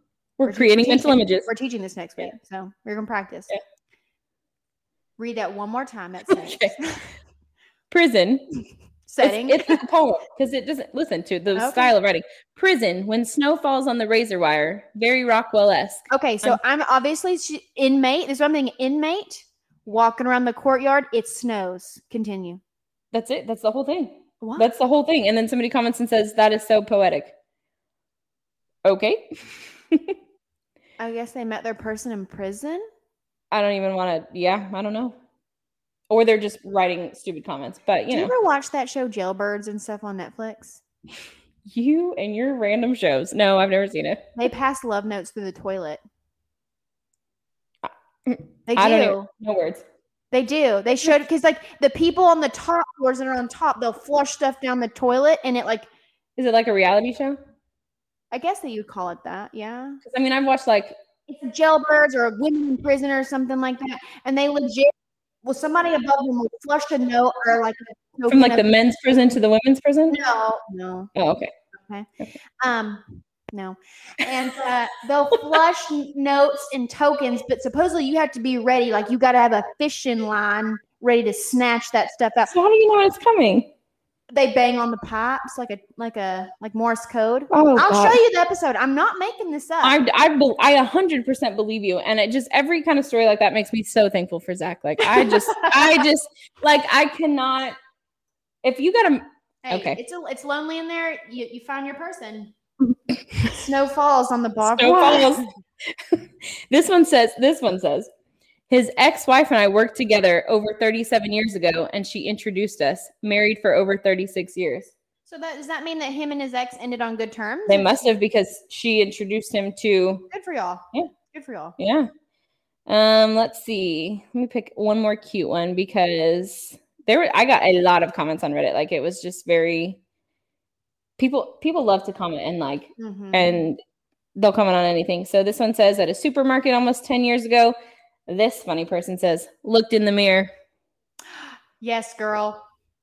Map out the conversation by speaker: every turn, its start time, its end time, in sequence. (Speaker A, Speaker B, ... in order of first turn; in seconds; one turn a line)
Speaker A: 0.4-1.5
Speaker B: 0.5-3.5
Speaker B: 5.2-7.1
Speaker A: 6.3-6.8
Speaker A: 7.9-8.4
Speaker B: 9.1-9.8
Speaker A: 9.2-16.6
Speaker B: 11.5-11.9
Speaker B: 16.1-22.6
Speaker A: 23.1-27.4
Speaker B: 24.4-24.7
Speaker A: 28.8-30.2
Speaker B: 31.0-32.8
Speaker A: 33.5-35.2
Speaker A: 36.1-38.3
Speaker B: 38.1-40.8
Speaker A: 41.6-44.4
Speaker B: 44.4-46.0
Speaker A: 47.8-49.9
Speaker B: 48.7-49.3
Speaker B: 50.3-55.9
Speaker A: 56.4-57.4
Speaker B: 58.3-60.0
Speaker A: 60.0-61.0
Speaker B: 61.3-64.9
Speaker B: 65.4-68.7
Speaker A: 68.3-70.2
Speaker B: 70.1-71.1
Speaker A: 71.2-71.5
Speaker B: 71.8-82.5
Speaker A: 82.5-83.7
Speaker B: 84.3-90.0
Speaker A: 87.5-88.2
Speaker A: 89.8-97.8
Speaker B: 95.0-96.1
Speaker A: 98.6-100.0
Speaker B: 99.6-102.5
Speaker A: 102.9-103.6
Speaker B: 103.4-105.5
Speaker A: 104.7-108.1
Speaker A: 108.7-114.9
Speaker B: 115.3-118.0
Speaker A: 117.7-120.3
Speaker B: 120.3-121.8
Speaker A: 121.8-122.1
Speaker A: 122.9-130.0
Speaker A: 131.2-133.8
Speaker B: 133.0-133.7
Speaker A: 134.3-137.8
Speaker A: 138.3-140.5
Speaker B: 141.4-142.6